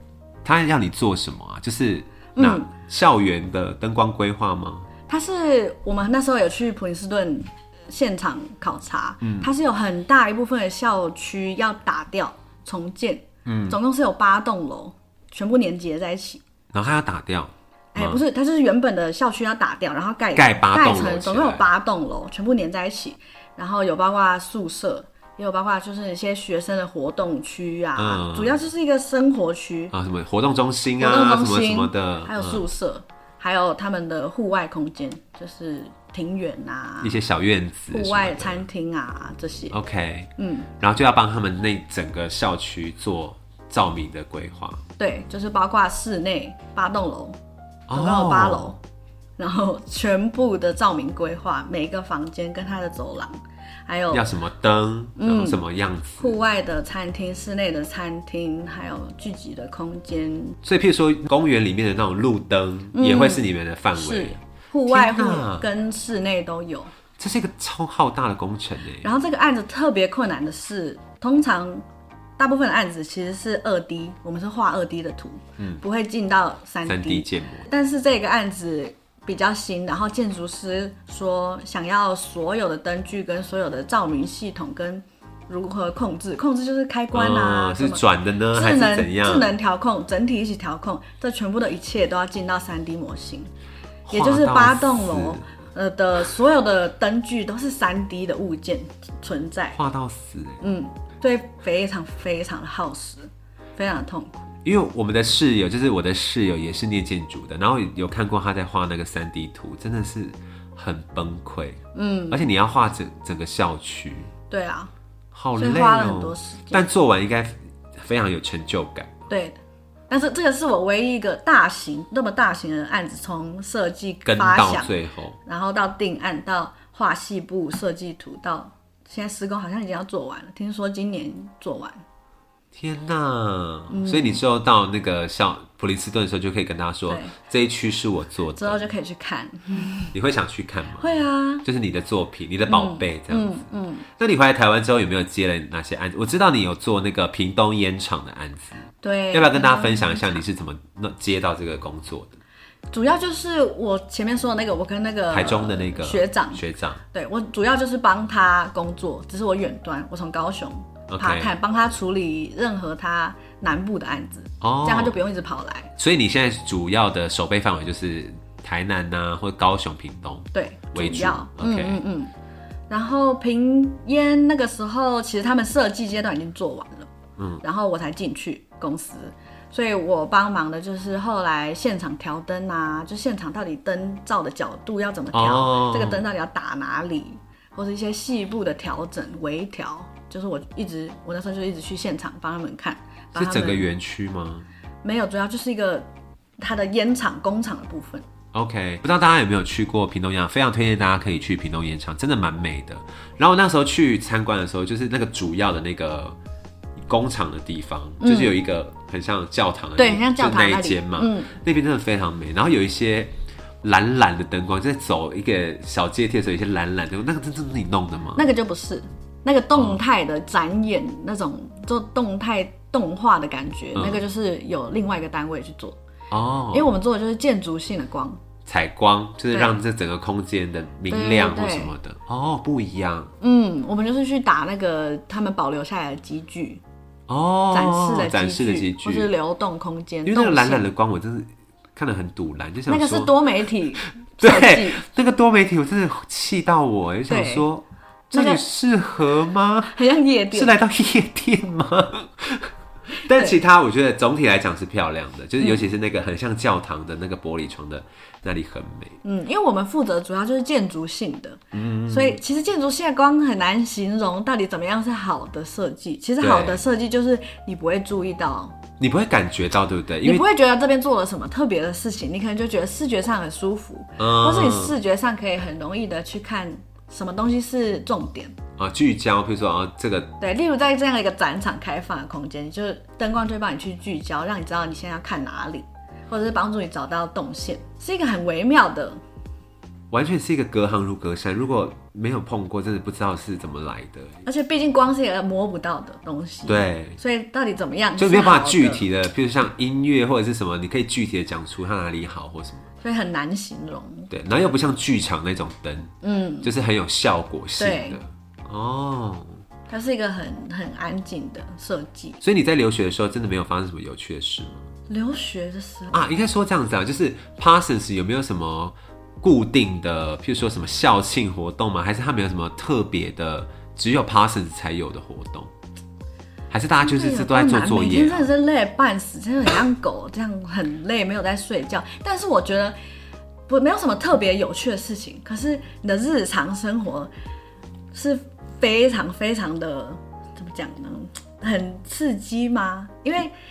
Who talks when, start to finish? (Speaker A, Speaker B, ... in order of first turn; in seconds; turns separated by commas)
Speaker A: 0.4-4.9, Speaker B: 2.4-2.7, Speaker B: 5.1-16.4, Speaker A: 9.2-9.5, Speaker A: 13.4-13.8, Speaker A: 16.7-18.2, Speaker B: 17.9-29.9, Speaker A: 20.3-21.6, Speaker A: 28.0-28.6, Speaker A: 29.9-32.6, Speaker B: 31.0-37.2, Speaker A: 37.0-38.6, Speaker B: 37.9-39.8, Speaker A: 39.7-44.8, Speaker B: 40.4-40.7, Speaker B: 45.0-47.4, Speaker A: 47.9-48.7, Speaker B: 47.9-48.8, Speaker B: 49.4-54.3, Speaker A: 54.1-56.3, Speaker B: 55.1-55.6, Speaker B: 56.2-60.6, Speaker A: 60.6-65.7, Speaker B: 62.9-66.9, Speaker A: 67.2-69.1, Speaker B: 69.0-71.8, Speaker B: 72.4-93.5, Speaker A: 76.8-77.7, Speaker A: 87.1-89.5, Speaker A: 94.1-95.5, Speaker B: 94.1-99.8, Speaker A: 99.8-100.6, Speaker B: 100.6-104.5, Speaker A: 104.6-114.3, Speaker B: 111.9-112.4, Speaker B: 114.5-114.9, Speaker A: 115.3-119.2, Speaker B: 115.5-116.9, Speaker B: 119.3-119.6, Speaker B: 120.1-124.9, Speaker A: 124.2-125.4, Speaker B: 125.4-132.0, Speaker A: 132.7-138.8, Speaker B: 133.9-134.4, Speaker B: 137.1-137.3, Speaker B: 138.5-140.1, Speaker A: 140.1-143.6, Speaker B: 141.0-141.6, Speaker B: 142.7-144.1, Speaker A: 144.2-152.4, Speaker B: 149.0-150.4, Speaker B: 152.9-165.9, Speaker A: 155.3-157.0, Speaker A: 161.1-161.5, Speaker A: 164.6-165.2, Speaker A: 166.0-172.0, Speaker B: 170.5-172.3, Speaker B: 172.9-177.1, Speaker B: 177.6-193.9, Speaker A: 185.3-186.3, Speaker A: 193.3-194.7, Speaker B: 195.0-196.1, Speaker B: 196.6-198.3, Speaker A: 198.5-206.4, Speaker A: 207.0-218.4, Speaker B: 208.2-208.6, Speaker B: 210.0-211.5, Speaker B: 218.3-226.0, Speaker A: 223.9-224.2, Speaker A: 226.3-226.9, Speaker B: 226.7-228.4, Speaker A: 228.7-233.3, Speaker B: 231.1-231.9, Speaker B: 233.4-236.8, Speaker A: 237.3-239.3, Speaker B: 237.7-240.9, Speaker A: 240.2-243.3, Speaker B: 242.9-245.0, Speaker A: 244.4-249.9, Speaker B: 247.3-247.7, Speaker B: 248.3-248.6, Speaker B: 249.9-250.7, Speaker A: 250.5-259.2, Speaker B: 253.2-253.6, Speaker B: 259.2-268.8, Speaker A: 261.7-262.4, Speaker A: 266.4-266.8, Speaker A: 269.0-270.4, Speaker B: 270.2-278.5, Speaker A: 274.2-275.0, Speaker A: 278.8-280.3, Speaker B: 280.4-289.2, Speaker A: 290.1-294.4, Speaker B: 294.4-299.0, Speaker A: 296.7-297.2, Speaker A: 298.2-302.9, Speaker B: 303.0-304.3, Speaker A: 304.3-309.6, Speaker B: 306.2-306.7, Speaker B: 307.8-308.2, Speaker B: 309.9-312.4, Speaker A: 312.4-314.9, Speaker B: 315.1-316.3, Speaker A: 316.1-325.7, Speaker A: 326.7-328.5, Speaker B: 327.0-332.9, Speaker B: 333.7-337.3, Speaker B: 338.1-343.5